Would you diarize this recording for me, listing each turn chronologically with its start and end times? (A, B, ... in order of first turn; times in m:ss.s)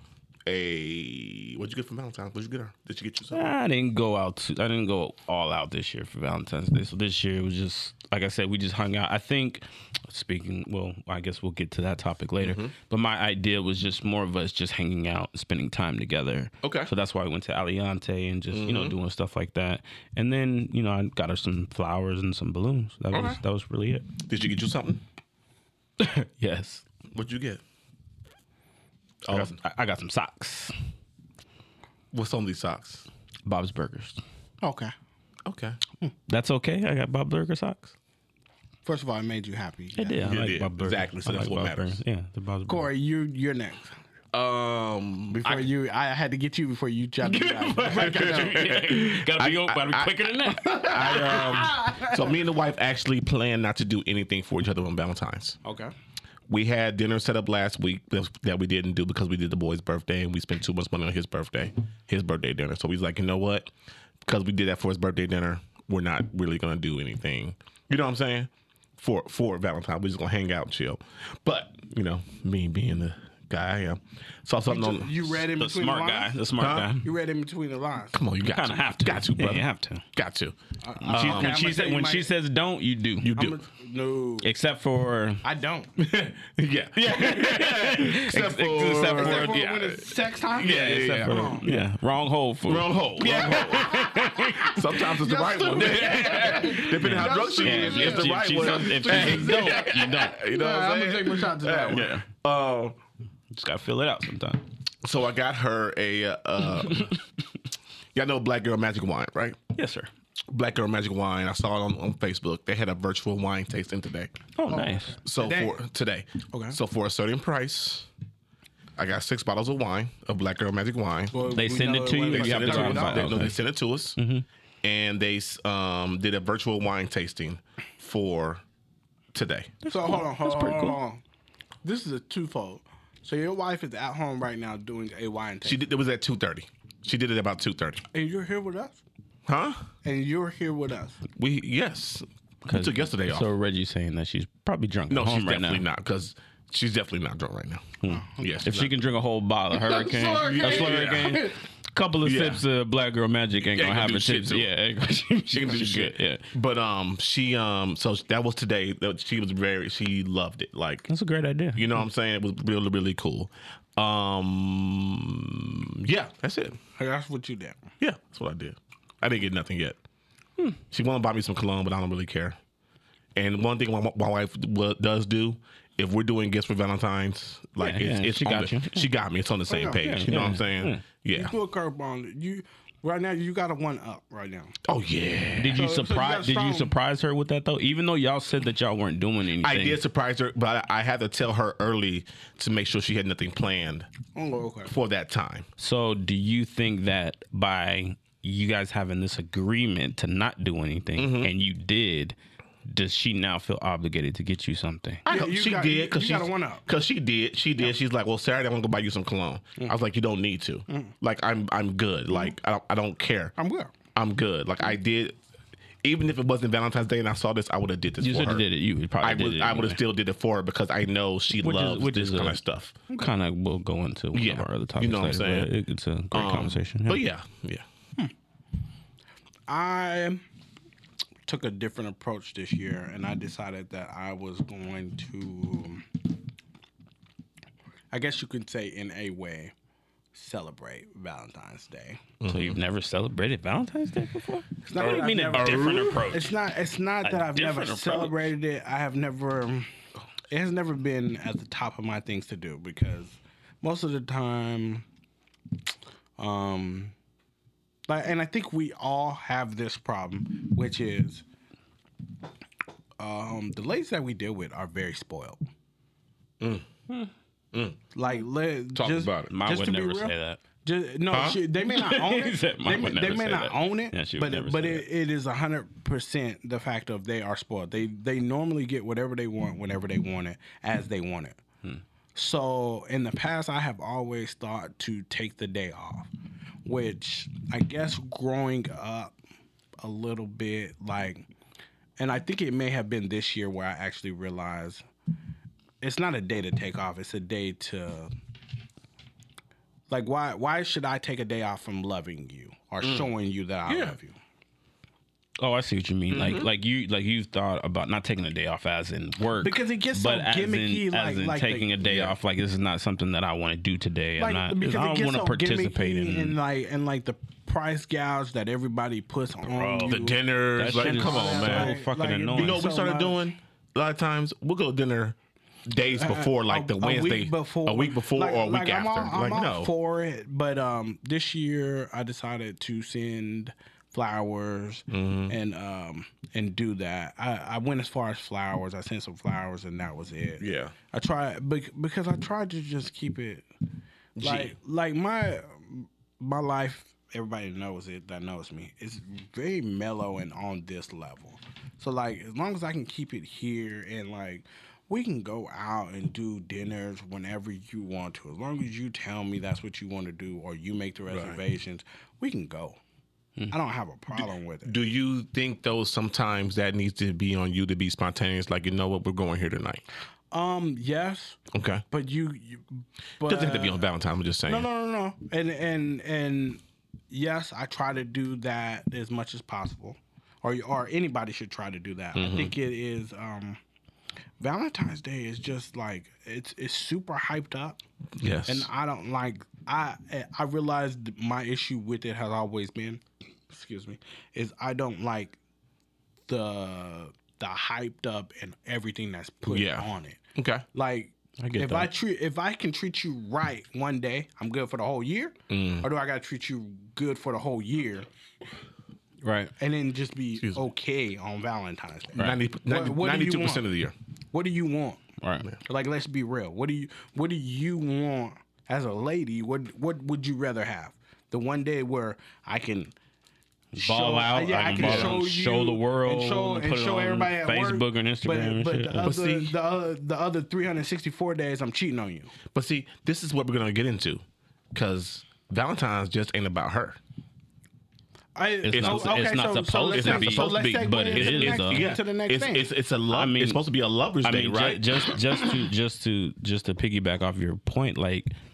0:00.4-0:03.4 A
0:03.3-0:24.1 B
0:12.4-0:12.7 A
0:16.6-0:16.9 A
0:18.5-0:19.0 A
0:23.1-0:23.4 A
0:24.2-0:25.0 A
0:26.0-0:26.8 B
0:27.1-0:27.6 A
0:29.2-0:29.6 A
0:29.3-0:30.7 B
0:32.1-0:33.0 A
0:33.4-0:34.2 B
0:34.6-0:34.9 C
0:35.4-0:35.8 A
0:36.3-0:37.9 B
0:38.8-0:40.2 C
0:40.0-0:42.9 B
0:40.2-0:42.0 A
0:42.7-0:43.9 C
0:44.3-0:45.7 A
0:45.3-0:48.7 C
0:47.2-0:51.7 B
0:47.9-0:55.6 A
0:51.0-0:52.3 C
0:55.6-0:55.9 C
0:56.5-1:03.7 A
1:04.2-1:15.2 A
1:14.6-1:16.4 C
1:15.3-1:17.0 B
1:16.6-1:16.9 A
1:17.0-1:18.2 C
1:18.1-1:20.5 A
1:18.4-1:20.0 B
1:20.8-1:22.3 C
1:21.0-1:23.3 B
1:21.1-1:21.6 A
1:23.2-1:23.6 A
1:23.3-1:24.5 C
1:24.4-1:25.4 B
1:25.4-1:25.9 C
1:26.0-1:31.8 A
1:27.0-1:29.6 B
1:29.0-1:31.6 C
1:30.6-1:34.8 B
1:32.7-1:43.0 A
1:33.2-1:42.1 C
1:35.9-1:40.4 B
1:41.9-1:42.2 B
1:43.5-1:44.6 B
1:45.0-1:47.1 A
1:46.8-1:47.2 B
1:48.1-1:49.6 A
1:49.7-1:50.1 B
1:50.5-1:54.4 A
1:54.6-1:55.2 B
1:54.7-1:55.8 C
1:55.2-1:58.1 A
1:56.5-1:56.8 C
1:59.0-2:01.3 A
2:01.3-2:03.4 C
2:01.5-2:03.6 B
2:02.3-2:04.2 A
2:04.2-2:04.4 B
2:04.8-2:08.6 A
2:09.3-2:09.7 A
2:09.8-2:11.0 B
2:09.9-2:11.2 C
2:11.8-2:15.8 C
2:15.6-2:18.0 A
2:18.1-2:19.0 C
2:19.5-2:19.8 A
2:20.0-2:21.2 C
2:21.4-2:23.5 A
2:22.6-2:25.8 B
2:25.1-2:28.9 A
2:28.0-2:36.4 B
2:28.1-2:28.4 C
2:29.7-2:31.6 C
2:30.3-2:31.4 A
2:32.2-2:32.6 A
2:33.6-2:34.7 A
2:35.5-2:41.1 A
2:41.1-2:41.9 B
2:41.7-2:46.8 A
2:47.0-2:47.8 C
2:48.0-2:50.0 A
2:50.9-2:52.6 A
2:53.4-3:01.5 A
2:57.8-2:59.1 B
2:59.7-3:00.3 C
3:00.0-3:01.0 B
3:01.3-3:04.7 C
3:04.8-3:05.8 A
3:05.6-3:10.0 B
3:05.7-3:06.9 C
3:09.6-3:14.1 A
3:14.3-3:14.9 C
3:14.9-3:15.7 A
3:15.8-3:25.2 B
3:21.2-3:21.5 A
3:25.2-3:33.5 A
3:25.3-3:26.8 C
3:30.9-3:31.1 C
3:33.6-3:33.9 C
3:34.1-3:35.4 A
3:36.0-3:38.6 A
3:38.2-3:40.0 B
3:39.2-3:42.9 A
3:41.6-3:42.6 B
3:43.1-3:47.2 B
3:44.3-3:45.7 A
3:46.3-3:47.8 A
3:49.7-3:50.4 C
3:51.4-3:56.0 C
3:58.1-3:59.7 C
4:00.3-4:02.2 C
4:02.4-4:02.8 A
4:02.4-4:06.5 B
4:04.8-4:09.9 C
4:05.0-4:06.3 A
4:07.2-4:08.4 B
4:10.5-4:15.0 C
4:16.4-4:17.1 C
4:18.1-4:21.4 C
4:23.2-4:25.6 C
4:26.6-4:26.9 A
4:27.7-4:28.0 A
4:28.1-4:41.6 C
4:28.9-4:29.5 A
4:29.5-4:30.6 B
4:31.3-4:31.6 A
4:31.8-4:35.0 B
4:42.3-4:46.3 C
4:46.8-4:49.3 C
4:50.0-4:51.5 C
4:52.2-4:55.0 C
4:56.0-4:58.3 C
5:00.1-5:04.4 C
5:03.0-5:03.3 A
5:03.9-5:04.2 A
5:05.6-5:16.6 B
5:06.3-5:06.7 A
5:09.6-5:12.3 C
5:14.4-5:23.5 C
5:19.6-5:22.8 B
5:20.1-5:22.0 A
5:22.5-5:29.9 A
5:26.1-5:43.6 C
5:35.1-5:35.6 A
5:40.6-5:40.9 A
5:44.4-5:44.7 A
5:44.4-6:03.0 C
6:01.3-6:01.6 A
6:03.7-6:04.9 C
6:04.8-6:10.0 A
6:10.5-6:11.6 C
6:11.7-6:12.0 A
6:12.1-6:14.0 C
6:13.4-6:14.9 A
6:14.7-6:23.8 C
6:22.3-6:22.7 A
6:24.6-6:28.0 C
6:28.4-6:28.9 A
6:28.6-6:35.6 C
6:36.5-6:40.4 C
6:39.7-6:40.8 A
6:40.9-6:48.3 C
6:41.6-6:42.0 A
6:45.7-6:46.1 A
6:49.4-6:49.7 B
6:49.8-6:53.8 C
6:52.3-6:54.1 A
6:54.5-6:55.2 C
6:55.4-6:55.7 B
6:55.8-7:03.1 C
7:03.9-7:09.4 B
7:04.0-7:12.5 C
7:04.9-7:05.4 A
7:09.2-7:09.7 A
7:12.7-7:14.4 A
7:14.9-7:17.2 A
7:18.6-7:22.8 C
7:18.9-7:22.1 B
7:18.9-7:19.5 A
7:20.1-7:25.4 A
7:23.3-7:23.8 B
7:24.4-7:28.5 B